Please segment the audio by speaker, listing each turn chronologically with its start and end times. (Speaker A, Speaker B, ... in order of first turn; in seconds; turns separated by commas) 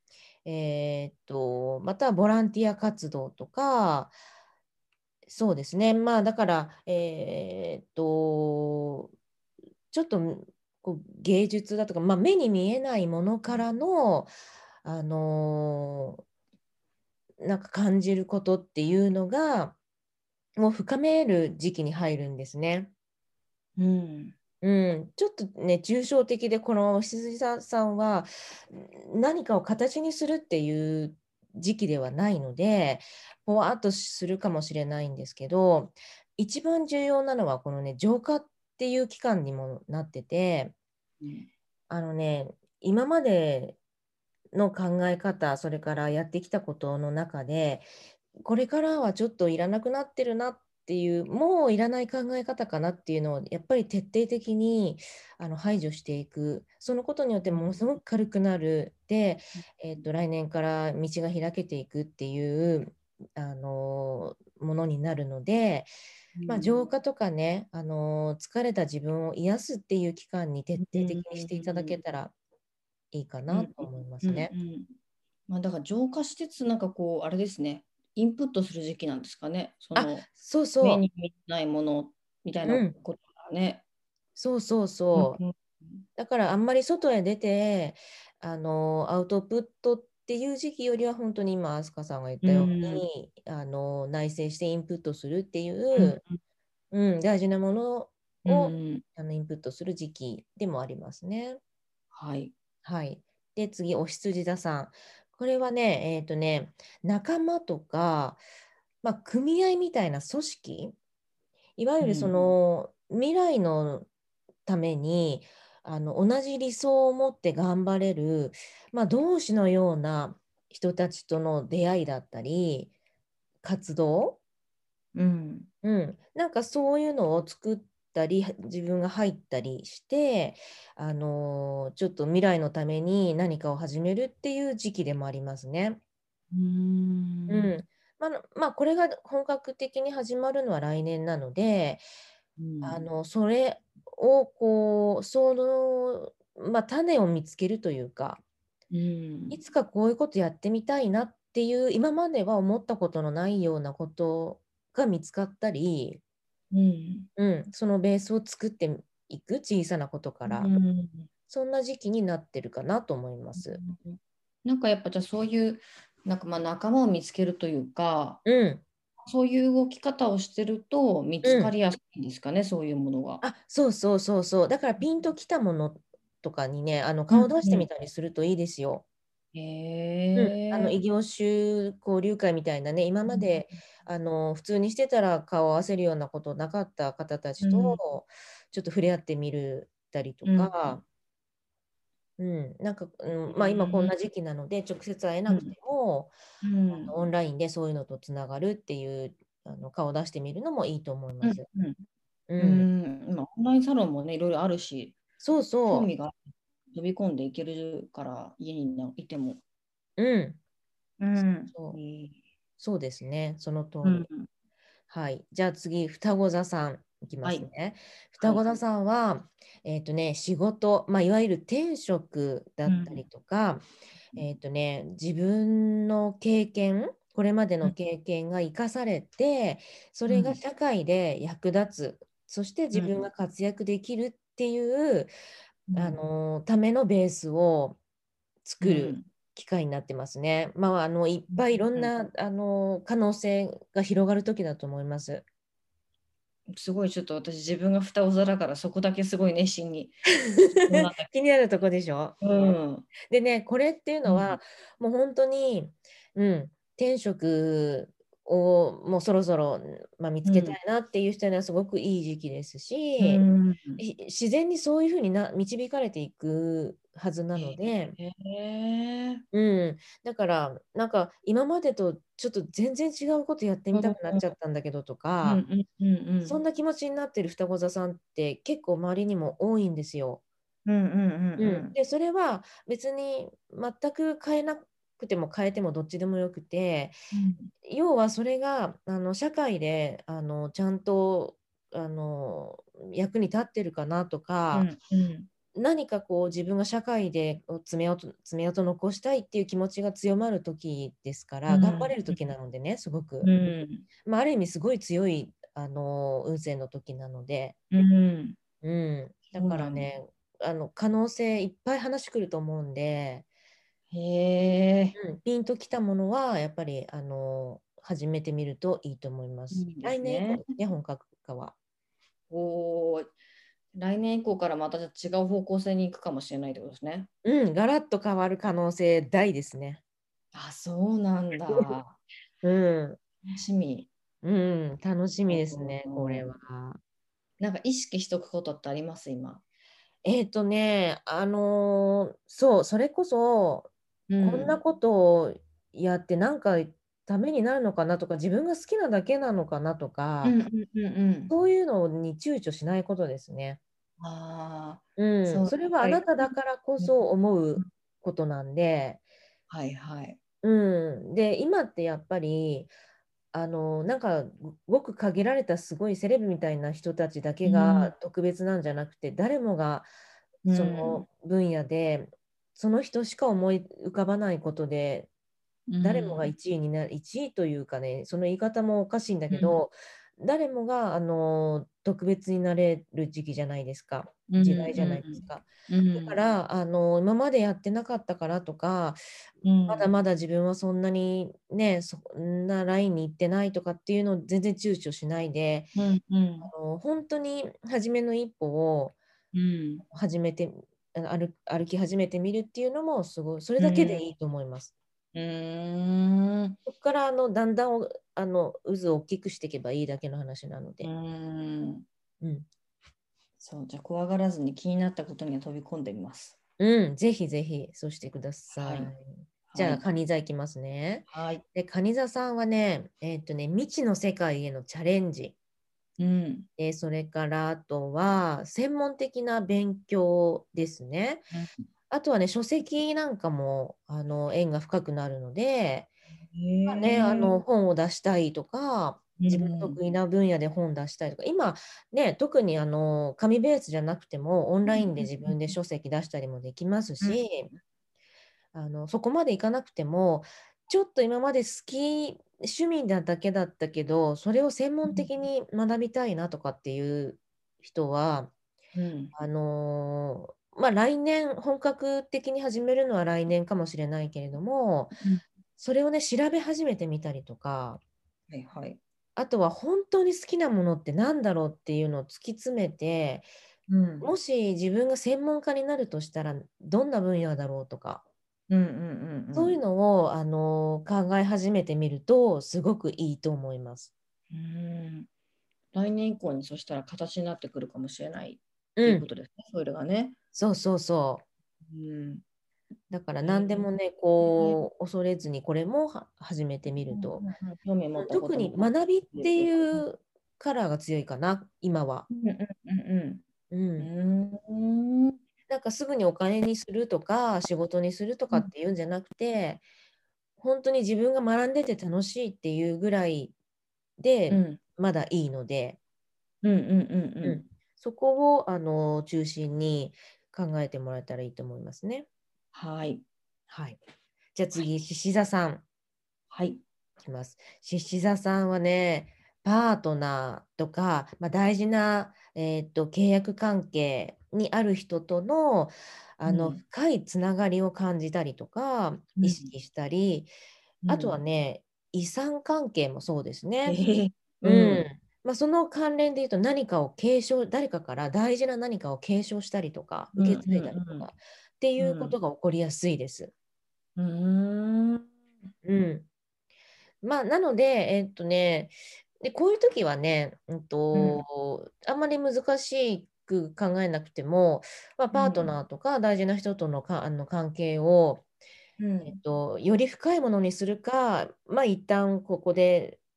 Speaker A: 0.4-4.1, Speaker A: 5.3-9.1, Speaker A: 9.9-14.3, Speaker A: 14.8-16.2, Speaker A: 17.4-19.8, Speaker A: 20.6-22.9, Speaker B: 23.8-24.4, Speaker A: 24.6-40.7, Speaker B: 41.2-41.5, Speaker A: 41.9-43.8, Speaker A: 44.5-47.9, Speaker A: 48.4-65.9, Speaker B: 57.4-57.8, Speaker B: 66.3-66.8, Speaker A: 66.5-72.3, Speaker B: 70.8-72.0, Speaker A: 73.1-74.5, Speaker B: 73.5-74.9, Speaker B: 75.5-80.3, Speaker A: 79.9-81.0, Speaker B: 80.8-83.8, Speaker A: 82.6-82.9, Speaker A: 84.3-85.4, Speaker B: 85.1-86.0, Speaker A: 86.2-96.2, Speaker B: 92.4-93.0, Speaker B: 95.9-96.4, Speaker A: 96.9-101.6, Speaker B: 98.4-99.0, Speaker B: 102.1-102.5, Speaker A: 102.8-108.4, Speaker A: 109.0-111.0, Speaker A: 111.8-114.1, Speaker B: 112.0-112.5, Speaker A: 114.7-122.9, Speaker A: 123.6-124.4, Speaker B: 125.1-125.7, Speaker A: 125.8-136.0, Speaker B: 136.5-137.7, Speaker A: 137.5-142.0, Speaker B: 142.6-143.0, Speaker A: 142.8-148.4, Speaker B: 148.9-149.6, Speaker A: 149.5-156.2, Speaker B: 156.7-157.3, Speaker A: 157.3-160.7, Speaker B: 160.4-161.3, Speaker A: 161.5-163.8, Speaker B: 163.5-168.4, Speaker A: 168.4-168.8, Speaker B: 169.2-173.4, Speaker A: 171.4-171.7, Speaker A: 173.4-179.0, Speaker B: 177.3-177.9, Speaker B: 179.5-181.0, Speaker A: 180.3-191.0, Speaker B: 183.3-183.7, Speaker B: 187.6-188.0, Speaker B: 190.4-191.0, Speaker A: 192.4-196.3, Speaker B: 193.5-194.1, Speaker B: 195.5-195.7, Speaker B: 196.6-197.1, Speaker A: 196.9-201.7, Speaker B: 201.4-202.0, Speaker A: 202.5-202.9, Speaker B: 202.6-205.2, Speaker A: 205.4-206.1, Speaker B: 205.8-209.6, Speaker A: 210.2-210.6, Speaker B: 211.2-212.4, Speaker A: 211.4-212.0, Speaker A: 212.8-214.3, Speaker B: 214.0-214.5, Speaker A: 215.1-235.3, Speaker B: 217.4-217.7, Speaker B: 218.4-218.7, Speaker B: 222.8-223.2, Speaker B: 230.3-230.6, Speaker B: 232.9-233.2, Speaker B: 235.9-236.2, Speaker A: 235.9-238.0, Speaker A: 238.6-245.4, Speaker B: 238.8-239.3, Speaker B: 241.5-242.1, Speaker B: 246.7-250.2, Speaker A: 250.4-252.4, Speaker B: 250.8-251.3, Speaker B: 252.4-253.1, Speaker A: 253.2-263.4, Speaker B: 254.2-254.6, Speaker B: 260.4-260.8, Speaker B: 263.2-264.0, Speaker A: 264.0-268.1, Speaker B: 267.5-269.4, Speaker A: 269.5-275.6, Speaker B: 273.9-274.5, Speaker B: 275.4-276.6, Speaker A: 276.4-280.4, Speaker B: 280.9-282.0, Speaker A: 281.6-287.1, Speaker B: 287.3-287.7, Speaker A: 287.8-294.9, Speaker B: 294.7-295.5, Speaker A: 295.7-303.5, Speaker B: 301.7-302.4, Speaker B: 303.4-304.1, Speaker A: 304.2-307.8, Speaker B: 307.9-308.6, Speaker A: 308.8-313.4, Speaker B: 309.5-310.1, Speaker B: 314.1-315.2, Speaker A: 315.1-321.7, Speaker B: 319.7-320.7, Speaker B: 322.5-323.3, Speaker B: 323.9-327.3, Speaker A: 327.4-330.0, Speaker B: 330.5-332.2, Speaker A: 332.6-333.2, Speaker B: 333.4-334.1, Speaker A: 334.4-337.0, Speaker B: 335.5-336.5, Speaker B: 337.6-339.6, Speaker A: 340.2-350.6, Speaker B: 344.3-344.8, Speaker B: 350.4-351.5, Speaker A: 351.5-353.8, Speaker B: 354.2-357.1, Speaker A: 355.2-359.2, Speaker B: 359.7-360.4, Speaker A: 360.6-362.9, Speaker A: 363.5-370.1, Speaker B: 367.6-368.1, Speaker B: 370.6-371.2, Speaker A: 370.7-375.3, Speaker B: 375.9-376.5, Speaker A: 376.0-389.2, Speaker B: 379.5-379.8, Speaker B: 384.5-386.4, Speaker B: 389.6-390.1, Speaker A: 389.9-395.9, Speaker B: 395.9-396.7, Speaker A: 396.6-399.1, Speaker B: 399.5-400.0, Speaker A: 400.1-404.9, Speaker B: 403.8-404.2, Speaker B: 405.3-406.8, Speaker A: 406.9-411.1, Speaker B: 411.0-412.1, Speaker A: 412.4-412.7, Speaker B: 413.6-416.6, Speaker A: 416.8-425.5, Speaker B: 418.7-419.1, Speaker B: 419.7-420.0, Speaker B: 421.3-421.6, Speaker B: 426.2-426.7, Speaker A: 426.8-431.5, Speaker A: 432.1-436.1, Speaker B: 436.5-437.6, Speaker A: 436.9-447.7, Speaker B: 439.4-440.0, Speaker B: 444.9-445.7, Speaker B: 447.2-447.8, Speaker A: 448.7-458.5, Speaker B: 458.9-459.3, Speaker A: 459.3-465.2, Speaker A: 465.8-468.0, Speaker B: 468.5-469.0, Speaker A: 469.4-473.5, Speaker B: 473.9-474.3, Speaker A: 474.2-478.2, Speaker B: 478.7-479.8, Speaker A: 479.5-484.1, Speaker B: 484.5-485.3, Speaker B: 485.9-490.4, Speaker A: 488.9-489.3, Speaker A: 490.5-491.4, Speaker B: 491.8-492.4, Speaker A: 493.1-497.4, Speaker B: 493.4-493.9, Speaker B: 494.4-494.8, Speaker B: 497.1-500.0, Speaker A: 498.1-502.3, Speaker B: 502.3-503.4, Speaker A: 503.7-504.1, Speaker B: 504.0-505.4, Speaker A: 505.7-509.8, Speaker A: 510.6-513.5, Speaker A: 514.2-516.0, Speaker B: 514.5-514.8, Speaker B: 516.6-517.6, Speaker A: 517.4-522.2, Speaker B: 522.7-523.2, Speaker A: 523.7-524.0, Speaker A: 524.5-525.8, Speaker B: 526.5-526.8, Speaker A: 527.2-540.5, Speaker B: 536.5-536.8, Speaker B: 539.4-539.7, Speaker B: 541.0-541.4, Speaker A: 541.1-544.0, Speaker B: 543.9-545.0, Speaker A: 544.6-553.5, Speaker B: 550.3-551.3, Speaker B: 552.0-552.3, Speaker B: 554.2-555.3, Speaker A: 555.8-556.3, Speaker A: 557.2-568.4, Speaker B: 561.1-561.4, Speaker B: 565.3-565.7, Speaker B: 569.0-569.4, Speaker A: 569.2-573.2